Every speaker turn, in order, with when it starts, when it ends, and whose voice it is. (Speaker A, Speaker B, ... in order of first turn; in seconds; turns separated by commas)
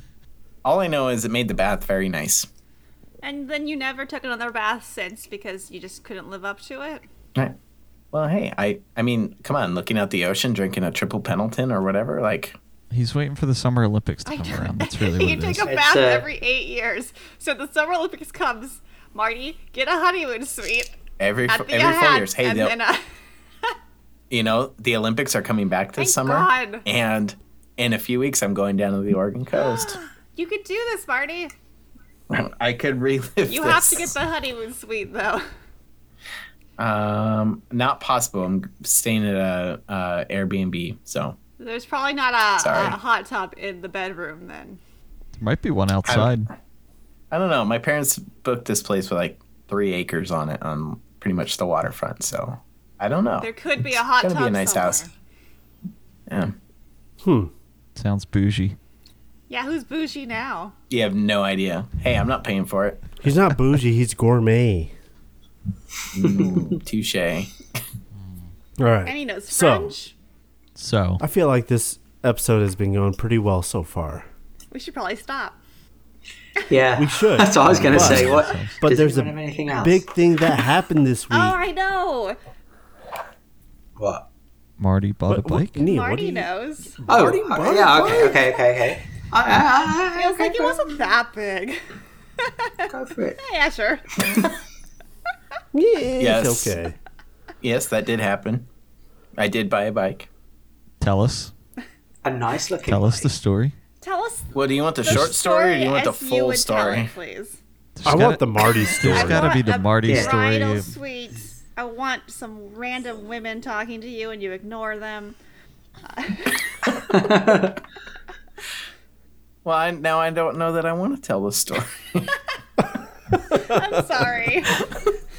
Speaker A: 0.6-2.5, Speaker B: 3.2-7.0, Speaker A: 8.1-12.6, Speaker C: 12.9-15.7, Speaker B: 14.3-21.0, Speaker D: 15.7-16.3, Speaker A: 21.2-22.8, Speaker B: 21.5-23.0, Speaker A: 24.3-30.0, Speaker B: 26.0-26.9, Speaker B: 29.5-31.5, Speaker A: 32.3-34.1, Speaker B: 33.5-35.5, Speaker A: 36.8-41.4, Speaker B: 41.6-44.8, Speaker A: 42.6-43.0, Speaker C: 45.4-46.5, Speaker A: 46.0-46.4, Speaker A: 47.3-55.0, Speaker B: 53.4-55.1, Speaker A: 56.3-56.5, Speaker E: 57.2-57.5, Speaker C: 58.0-58.8, Speaker B: 59.5-60.7, Speaker A: 60.9-63.1, Speaker E: 63.2-64.9, Speaker A: 66.1-67.8, Speaker C: 68.2-68.5, Speaker E: 68.8-69.9, Speaker B: 69.1-70.1, Speaker C: 70.8-71.2, Speaker E: 71.2-74.3, Speaker B: 74.7-75.6, Speaker D: 76.7-80.0, Speaker E: 77.0-81.6, Speaker C: 77.7-78.8, Speaker B: 81.3-82.4, Speaker D: 84.0-84.3, Speaker C: 84.8-85.8, Speaker E: 85.3-86.5, Speaker B: 85.8-87.0, Speaker E: 87.0-88.6, Speaker D: 87.1-91.0, Speaker B: 90.2-91.8, Speaker B: 92.4-92.9, Speaker D: 92.9-93.4, Speaker B: 93.4-94.3, Speaker E: 95.7-97.0, Speaker A: 96.2-96.8, Speaker A: 97.6-98.7, Speaker A: 99.4-100.3, Speaker C: 101.0-101.5, Speaker D: 102.2-103.3, Speaker C: 102.8-103.8, Speaker B: 104.0-107.6, Speaker A: 104.5-107.1, Speaker C: 108.0-110.9, Speaker E: 108.0-109.5, Speaker B: 109.1-115.4, Speaker D: 110.0-110.3, Speaker B: 116.1-116.6, Speaker D: 117.1-117.8, Speaker A: 119.7-122.3, Speaker B: 123.5-124.8